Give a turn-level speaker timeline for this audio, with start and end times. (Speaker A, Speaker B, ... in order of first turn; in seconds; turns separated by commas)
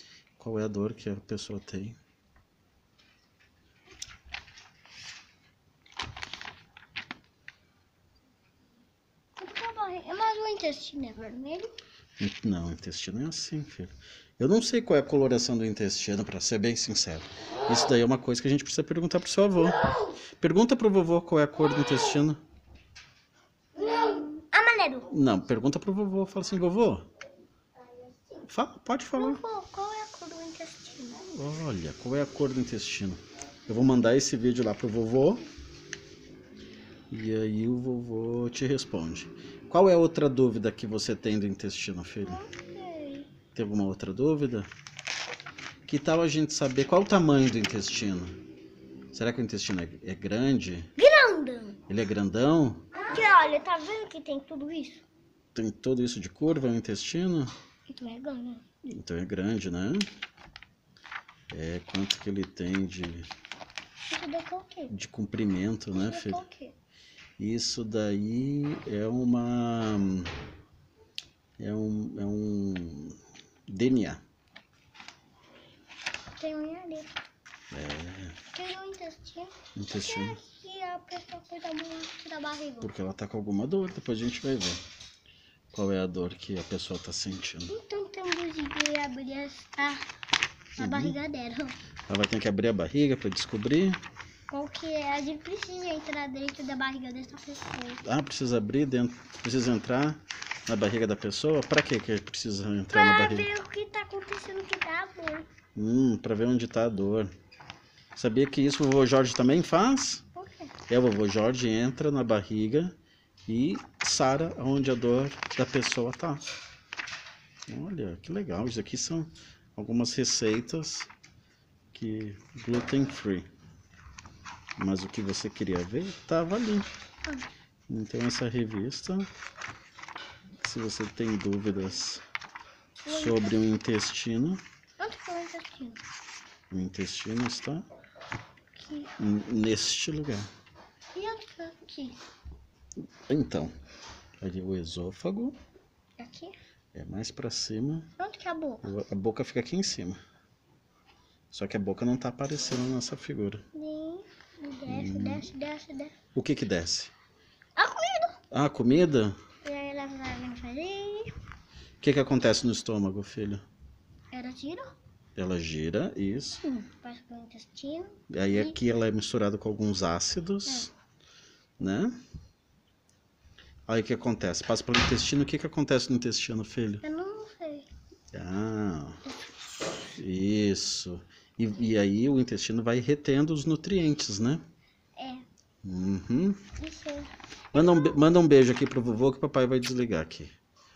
Speaker A: 0.4-2.0, Speaker B: 9.4-11.7, Speaker A: 12.2-19.8, Speaker A: 20.4-22.4, Speaker B: 23.8-25.1, Speaker A: 25.1-27.1, Speaker A: 28.4-29.4, Speaker B: 29.2-31.2, Speaker A: 31.3-35.4, Speaker A: 37.1-42.4, Speaker B: 42.2-43.3, Speaker A: 43.5-44.7, Speaker A: 45.9-48.4, Speaker A: 49.1-50.9, Speaker B: 51.0-51.8, Speaker A: 51.9-52.9, Speaker B: 52.9-55.0, Speaker A: 55.5-57.5, Speaker B: 57.9-58.6, Speaker A: 58.8-60.1, Speaker A: 61.5-63.3, Speaker B: 64.0-64.9, Speaker A: 64.9-66.4, Speaker B: 65.9-66.8, Speaker A: 67.4-70.3, Speaker A: 71.6-74.2, Speaker B: 76.4-77.1, Speaker A: 77.7-78.4, Speaker B: 78.5-82.9, Speaker A: 79.8-80.4, Speaker A: 82.8-84.8, Speaker A: 85.7-87.7, Speaker B: 87.7-90.0, Speaker B: 90.8-91.7, Speaker A: 90.8-91.2, Speaker A: 92.1-94.0, Speaker B: 94.5-98.0, Speaker A: 98.0-103.5, Speaker B: 102.9-105.5, Speaker A: 105.7-107.3, Speaker A: 108.2-110.2, Speaker B: 110.3-110.7, Speaker A: 110.9-112.9, Speaker A: 113.5-116.4, Speaker A: 117.7-121.1, Speaker A: 121.9-123.5, Speaker A: 124.8-126.9, Speaker A: 127.9-129.3, Speaker A: 130.6-132.2, Speaker B: 133.0-133.5, Speaker A: 133.1-134.6, Speaker B: 135.0-136.0, Speaker A: 136.7-137.8, Speaker B: 138.7-139.1, Speaker A: 139.2-140.5, Speaker B: 141.1-142.2, Speaker A: 143.3-143.7, Speaker A: 144.4-145.6, Speaker B: 146.2-146.5, Speaker A: 146.9-148.1, Speaker B: 148.2-148.8, Speaker A: 148.8-150.2, Speaker A: 151.5-153.6, Speaker B: 153.7-156.1, Speaker A: 154.9-155.5, Speaker A: 156.3-157.1, Speaker B: 157.8-158.4, Speaker A: 158.5-159.3, Speaker B: 159.6-161.3, Speaker A: 162.0-163.6, Speaker B: 164.3-164.9, Speaker A: 165.3-166.6, Speaker B: 166.6-168.8, Speaker A: 168.3-170.9, Speaker A: 171.8-172.1, Speaker A: 173.9-177.0, Speaker B: 177.0-177.9, Speaker A: 178.3-179.2, Speaker B: 179.2-179.9, Speaker A: 180.1-184.6, Speaker B: 185.2-185.4, Speaker A: 185.8-186.6, Speaker B: 186.8-188.1, Speaker A: 187.7-190.5